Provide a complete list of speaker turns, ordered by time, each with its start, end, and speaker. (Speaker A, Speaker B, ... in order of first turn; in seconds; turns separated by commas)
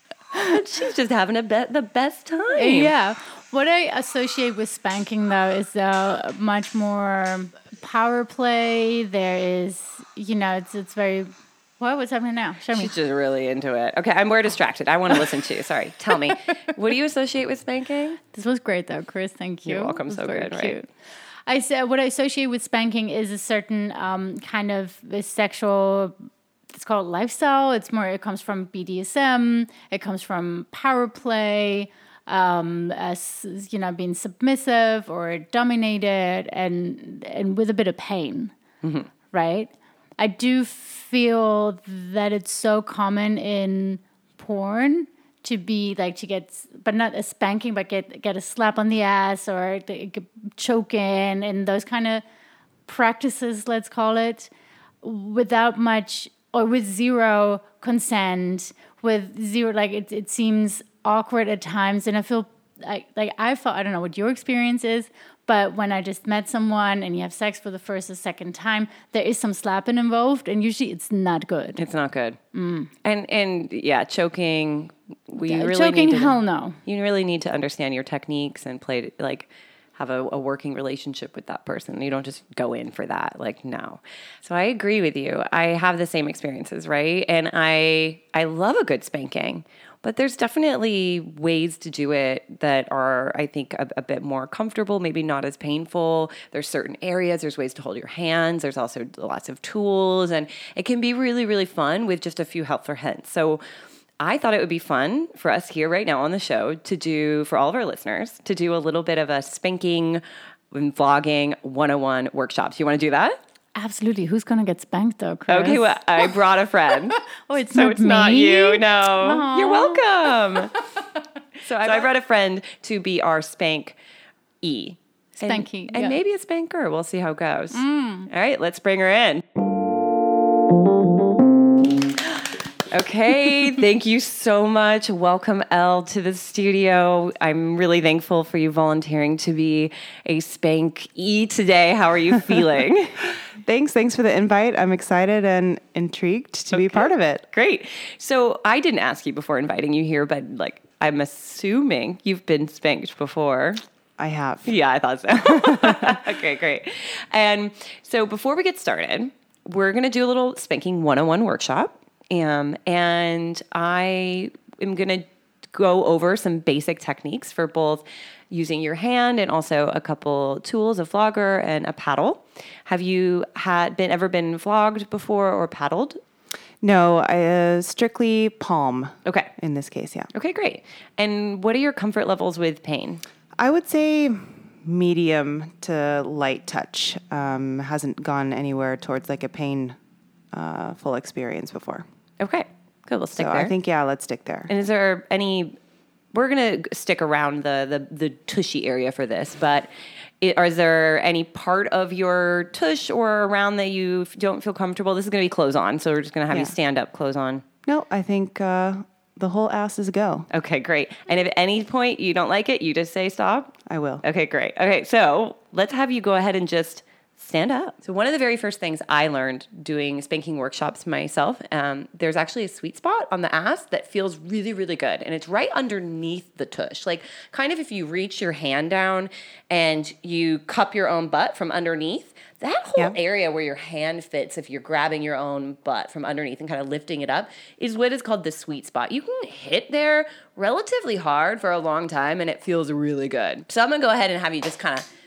Speaker A: 0.3-2.9, Speaker B: 2.5-12.9, Speaker A: 12.7-18.2, Speaker B: 18.2-20.9, Speaker A: 19.7-20.8, Speaker B: 21.5-26.1, Speaker B: 26.7-38.5, Speaker A: 38.8-39.1, Speaker B: 39.3-52.2, Speaker B: 52.9-54.5, Speaker B: 55.0-71.8, Speaker A: 71.8-72.4, Speaker B: 72.5-72.9, Speaker A: 73.0-103.6, Speaker B: 75.4-76.8, Speaker A: 104.2-113.4, Speaker B: 113.8-116.3, Speaker A: 115.5-120.7, Speaker B: 117.1-120.7, Speaker A: 121.6-124.0, Speaker A: 124.6-129.4, Speaker B: 125.4-126.2, Speaker B: 127.7-128.3, Speaker A: 132.9-143.3, Speaker C: 143.6-147.5, Speaker A: 146.7-153.8, Speaker C: 154.2-154.8, Speaker A: 154.7-176.2, Speaker C: 155.3-156.2, Speaker C: 176.8-180.3, Speaker A: 179.2-179.5, Speaker A: 180.3-183.2, Speaker C: 183.6-190.0, Speaker C: 190.5-192.1, Speaker A: 192.4-193.7, Speaker C: 193.4-194.7, Speaker A: 194.7-195.8, Speaker A: 196.3-199.9, Speaker A: 200.4-207.6, Speaker C: 206.5-206.8, Speaker C: 207.9-210.5, Speaker A: 210.5-245.1, Speaker C: 213.9-214.2